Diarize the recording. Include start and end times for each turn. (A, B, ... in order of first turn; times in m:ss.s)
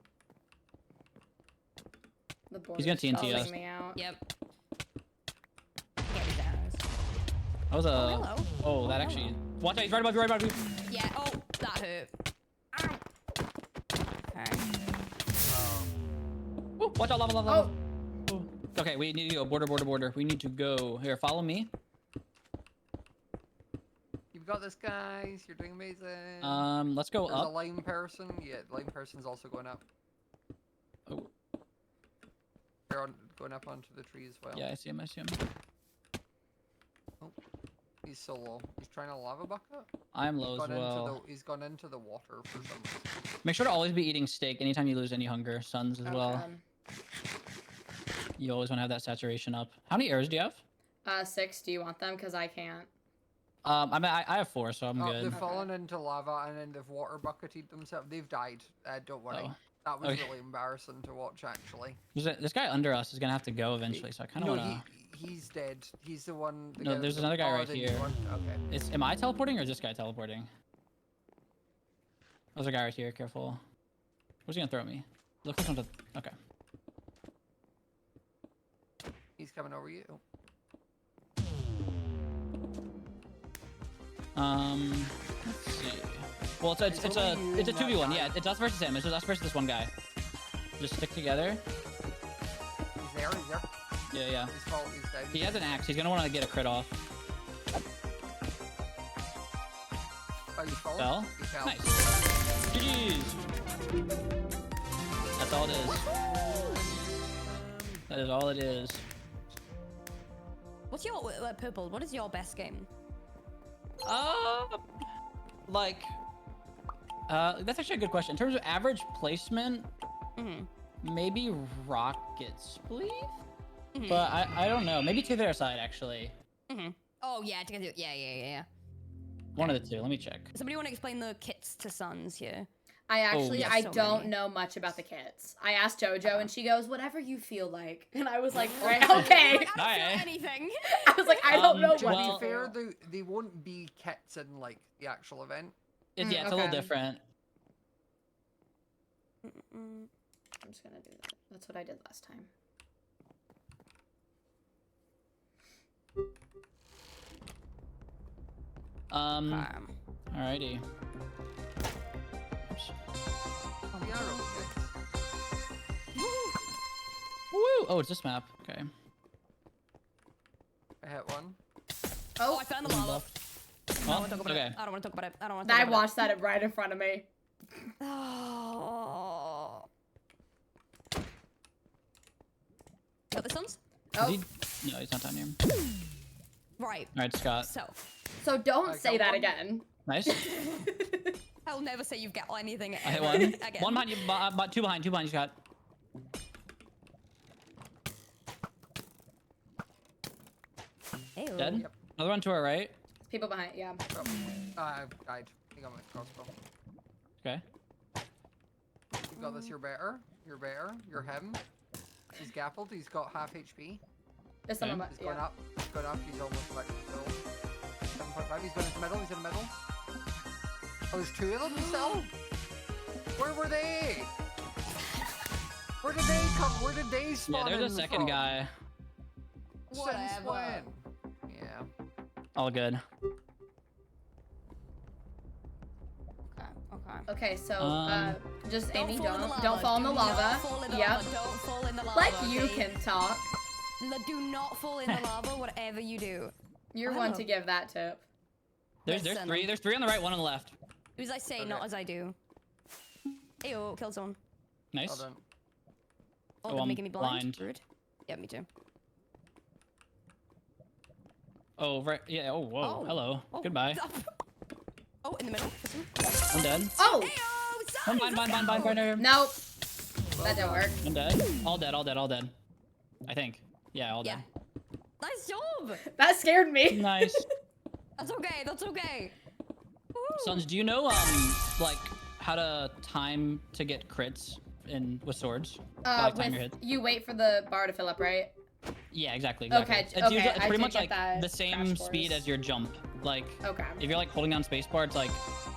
0:02.5-0:04.0 A
0:02.8-0:03.5 B
0:04.0-0:04.2 C
0:06.1-0:06.8 C
0:07.7-0:10.6 B
0:07.9-0:09.4 C
0:10.9-0:12.1 C
0:12.7-0:13.0 C
0:14.3-0:14.7 C
0:15.5-0:15.9 D
0:16.8-0:17.8 B
0:17.5-0:17.7 A
0:18.3-0:21.7 B
0:24.3-0:26.7 D
0:26.4-0:27.6 B
0:27.3-0:29.8 D
0:32.9-0:34.7 D
0:34.5-0:35.4 B
0:38.0-0:39.9 D
0:40.1-0:41.2 B
0:40.6-0:43.1 D
0:43.4-0:46.5 B
0:46.0-0:46.6 A
0:48.4-0:50.6 B
0:51.1-0:52.9 A
0:53.6-0:55.4 B
0:55.0-1:02.0 D
0:55.3-0:55.7 A
0:59.3-1:00.4 B
1:02.2-1:04.9 B
1:03.9-1:08.6 D
1:06.8-1:08.1 B
1:08.7-1:10.5 B
1:12.6-1:13.6 B
1:14.5-1:16.3 B
1:19.4-1:20.2 D
1:24.4-1:29.9 B
1:26.9-1:28.4 D
1:30.8-1:31.6 B
1:33.0-1:33.7 D
1:34.1-1:34.5 B
1:34.5-1:35.9 D
1:35.3-1:37.0 B
1:40.6-1:42.1 D
1:41.0-1:42.0 B
1:42.7-1:43.4 B
1:45.4-1:46.1 B
1:45.8-1:46.8 C
1:46.3-1:48.0 D
1:48.1-1:49.0 B
1:50.9-1:52.9 C
1:54.0-1:54.8 B
1:55.7-1:56.2 B
1:57.3-1:59.9 B
2:00.4-2:00.7 C
2:01.0-2:03.4 B
2:03.9-2:04.3 C
2:04.1-2:06.4 B
2:06.7-2:08.7 C
2:09.6-2:10.5 B
2:10.5-2:12.7 C
2:13.1-2:19.7 A
2:13.3-2:13.8 B
2:13.5-2:14.3 C
2:18.8-2:21.7 C
2:19.8-2:20.3 B
2:21.0-2:22.7 A
2:21.5-2:22.5 B
2:21.7-2:25.8 D
2:26.2-2:27.2 B
2:26.2-2:26.9 A
2:29.4-2:30.1 C
2:30.6-2:32.5 A
2:39.1-2:39.7 B
2:39.4-2:39.9 C
2:40.3-2:40.8 B
2:43.9-2:44.4 C
2:44.0-2:44.9 D
2:46.2-2:46.6 C
2:47.5-2:48.9 B
2:51.0-2:51.6 D
2:52.4-2:52.7 A
2:52.5-2:53.3 C
2:52.8-2:53.2 B
2:54.0-2:56.3 C
2:54.0-2:54.8 B
2:55.6-2:57.3 A
2:58.0-2:59.9 C
3:03.3-3:03.8 C
3:04.1-3:04.4 A
3:04.2-3:05.6 B
3:06.8-3:08.0 C
3:07.1-3:07.7 B
3:08.4-3:11.4 A
3:08.8-3:09.5 D
3:10.1-3:10.5 B
3:11.6-3:14.2 C
3:13.0-3:15.6 B
3:21.4-3:21.9 C
3:21.6-3:22.9 B
3:23.3-3:24.0 A
3:24.1-3:26.5 D
3:29.3-3:31.6 D
3:29.4-3:29.7 C
3:32.4-3:34.0 D
3:34.7-3:35.4 A
3:34.8-3:35.1 B
3:35.1-3:37.4 D
3:38.1-3:39.7 D
3:41.1-3:42.3 D
3:41.6-3:42.3 C
3:43.4-3:44.3 D
3:46.0-3:48.5 D
3:47.5-3:48.7 B
3:49.9-3:50.9 C
3:49.9-3:51.9 D
3:52.6-3:53.0 B
3:56.6-3:57.3 C
3:57.3-4:01.3 A
3:57.8-3:58.4 B
3:58.9-4:02.9 C
4:02.1-4:03.5 A
4:04.0-4:06.5 C
4:06.9-4:08.2 A
4:07.0-4:07.5 C
4:09.0-4:10.8 B
4:09.1-4:09.7 C
4:11.2-4:12.4 C
4:11.6-4:11.9 D
4:13.6-4:14.4 C
4:14.9-4:15.3 B
4:15.1-4:15.4 D
4:16.6-4:18.7 C
4:16.7-4:17.6 B
4:21.8-4:24.0 B
4:22.8-4:24.3 C
4:25.2-4:28.9 C
4:26.5-4:26.9 B
4:27.0-4:27.4 A
4:28.0-4:29.4 B
4:28.7-4:29.6 A
4:30.4-4:30.9 D
4:30.4-4:31.0 A
4:31.0-4:32.5 B
4:33.3-4:34.4 B
4:35.2-4:36.0 C
4:36.0-4:37.5 A
4:36.9-4:37.5 B
4:38.2-4:39.4 C
4:40.2-4:40.6 C
4:40.4-4:46.8 B
4:46.0-4:48.5 A
4:49.1-4:55.4 B
4:49.7-4:52.5 A
4:53.6-4:54.0 A